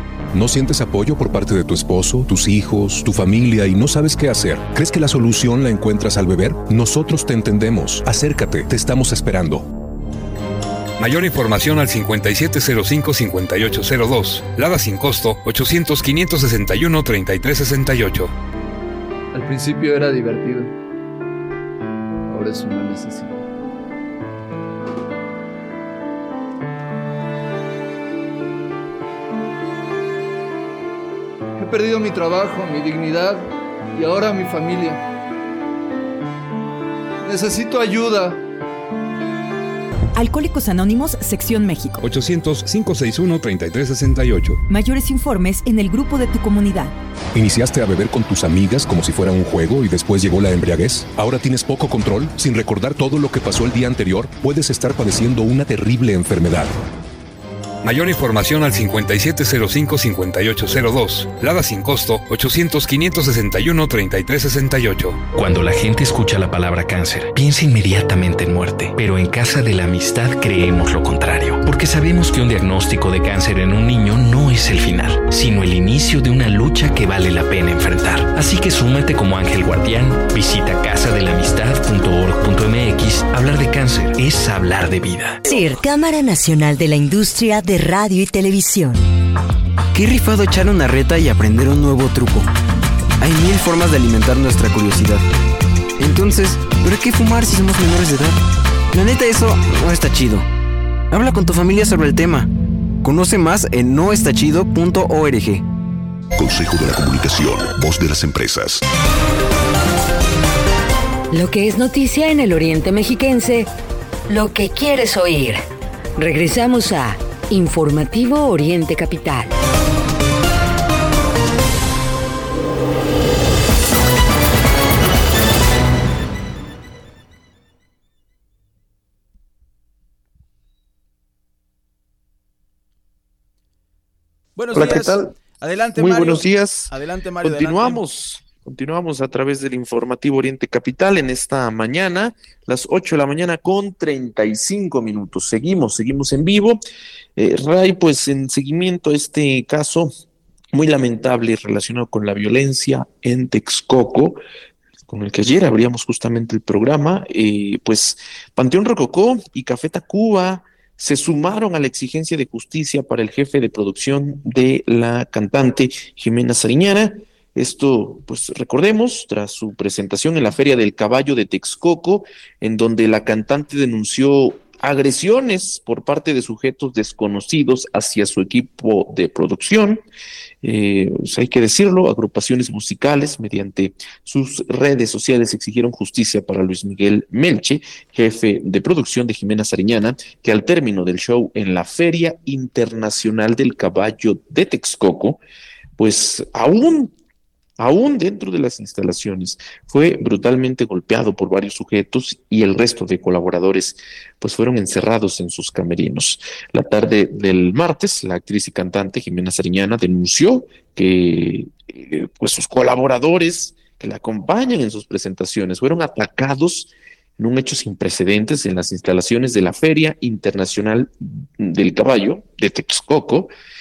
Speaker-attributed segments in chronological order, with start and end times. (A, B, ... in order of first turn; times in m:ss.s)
0:00.3-0:09.6 A
0:11.0-0:18.3 B
0:19.3-0:20.7 C
0:22.3-0:23.4 C
0:31.6-0:35.0 C
0:37.2-0:38.4 C
0:40.2-0:42.0 D
0:42.0-0:44.6 B
0:44.7-0:46.9 D
0:47.3-0:56.8 A
0:57.8-1:05.2 B
1:05.3-1:25.4 E
1:25.4-1:29.0 F
1:29.9-1:32.5 G
1:33.2-1:35.2 G
1:36.0-1:38.4 G
1:38.9-1:40.4 G
1:41.1-1:42.5 G
1:43.0-1:45.6 G
1:46.4-1:48.8 H
1:51.3-1:53.7 I
1:54.3-1:55.6 I
1:56.2-1:59.6 I
2:14.6-2:18.0 J
2:14.7-2:15.3 K
2:16.0-2:16.9 K
2:17.4-2:26.8 K
2:27.4-2:30.1 K
2:30.7-2:34.4 K
2:35.1-3:00.0 K
3:00.6-3:15.4 K
3:16.0-3:17.1 K
3:17.8-3:43.5 K